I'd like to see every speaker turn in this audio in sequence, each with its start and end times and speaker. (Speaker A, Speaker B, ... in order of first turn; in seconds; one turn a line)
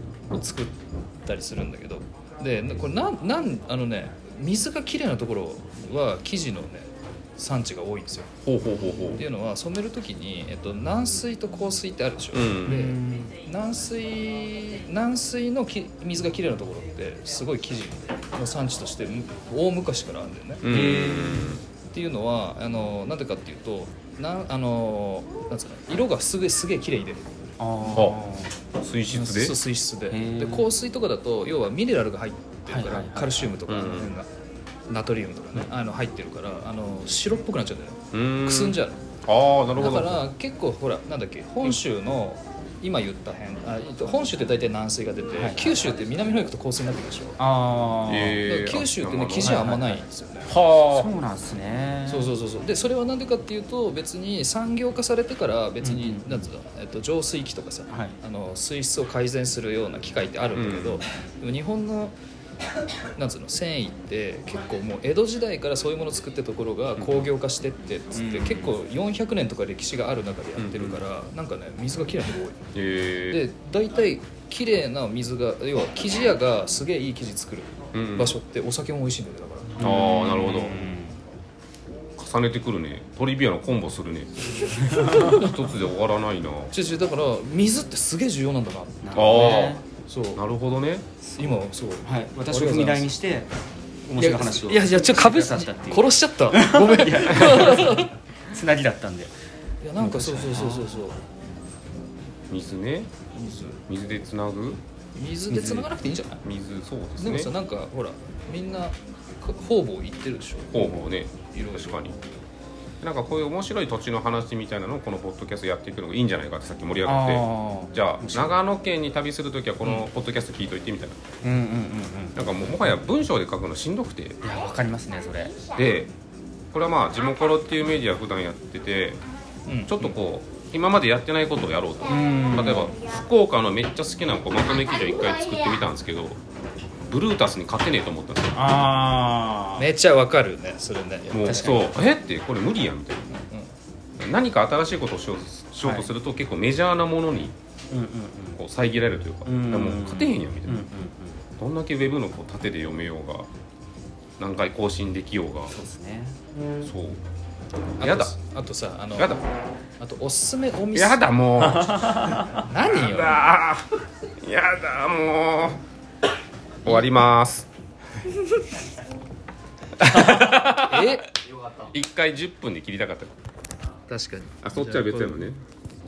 Speaker A: 0.3-8.3
Speaker B: 8.4-9.2
Speaker A: 9.1-20.6
Speaker B: 12.3-12.8
Speaker C: 12.6-13.4
Speaker B: 20.6-21.6
Speaker C: 20.6-21.6
Speaker A: 21.9-27.2
Speaker C: 27.6-28.6
Speaker B: 28.8-29.6
Speaker A: 29.1-34.3
Speaker C: 30.1-30.7
Speaker C: 32.7-33.5
Speaker B: 33.7-34.1
Speaker A: 34.9-39.0
Speaker B: 38.1-40.2
Speaker A: 39.8-47.4
Speaker C: 45.4-45.7
Speaker C: 47.4-48.4
Speaker B: 48.0-49.7
Speaker A: 48.4-50.5
Speaker C: 49.4-50.0
Speaker B: 50.5-51.1
Speaker C: 50.8-52.3
Speaker A: 52.1-62.1
Speaker C: 55.8-56.4
Speaker C: 57.9-58.1
Speaker B: 60.5-61.0
Speaker A: 63.1-72.6
Speaker B: 67.0-67.3
Speaker C: 68.1-68.8
Speaker B: 70.6-71.0
Speaker B: 72.7-73.4
Speaker A: 73.3-79.9
Speaker B: 77.9-78.4
Speaker C: 79.8-81.2
Speaker B: 79.8-80.8
Speaker B: 82.2-86.7
Speaker A: 85.0-85.5
Speaker A: 86.7-90.4
Speaker C: 89.0-89.8
Speaker B: 89.1-89.8
Speaker B: 90.3-91.0
Speaker A: 91.4-93.1
Speaker C: 92.0-93.5
Speaker C: 94.0-99.3
Speaker A: 94.2-98.1
Speaker A: 99.8-101.2
Speaker C: 100.0-101.0
Speaker B: 102.5-103.1
Speaker A: 103.3-103.8
Speaker B: 103.9-104.8
Speaker A: 105.2-106.4
Speaker C: 105.5-105.9
Speaker B: 106.4-107.5
Speaker A: 107.2-112.2
Speaker B: 110.7-112.2
Speaker C: 110.7-111.1
Speaker B: 113.0-121.2
Speaker C: 117.0-118.6
Speaker C: 121.4-122.4
Speaker B: 122.3-124.4
Speaker C: 124.4-125.6
Speaker B: 125.7-126.1
Speaker B: 126.7-129.2
Speaker B: 129.8-136.4
Speaker C: 132.0-132.9
Speaker B: 137.1-138.7
Speaker C: 138.5-139.9
Speaker A: 139.8-141.9
Speaker B: 141.3-143.3
Speaker A: 143.3-143.7
Speaker B: 144.2-147.6
Speaker C: 145.8-146.1
Speaker C: 147.9-148.6
Speaker B: 148.6-150.9
Speaker C: 149.4-151.4
Speaker B: 151.6-153.5
Speaker B: 154.4-155.8
Speaker C: 155.7-156.4
Speaker B: 156.8-157.2
Speaker A: 158.0-159.4
Speaker B: 158.0-158.3
Speaker B: 159.1-159.4
Speaker A: 160.0-161.2
Speaker B: 160.9-163.9
Speaker A: 162.6-163.5
Speaker B: 164.4-165.8
Speaker B: 166.8-167.7
Speaker B: 170.0-171.2
Speaker A: 170.2-171.3
Speaker B: 171.8-173.3
Speaker A: 174.1-175.5
Speaker B: 174.6-175.6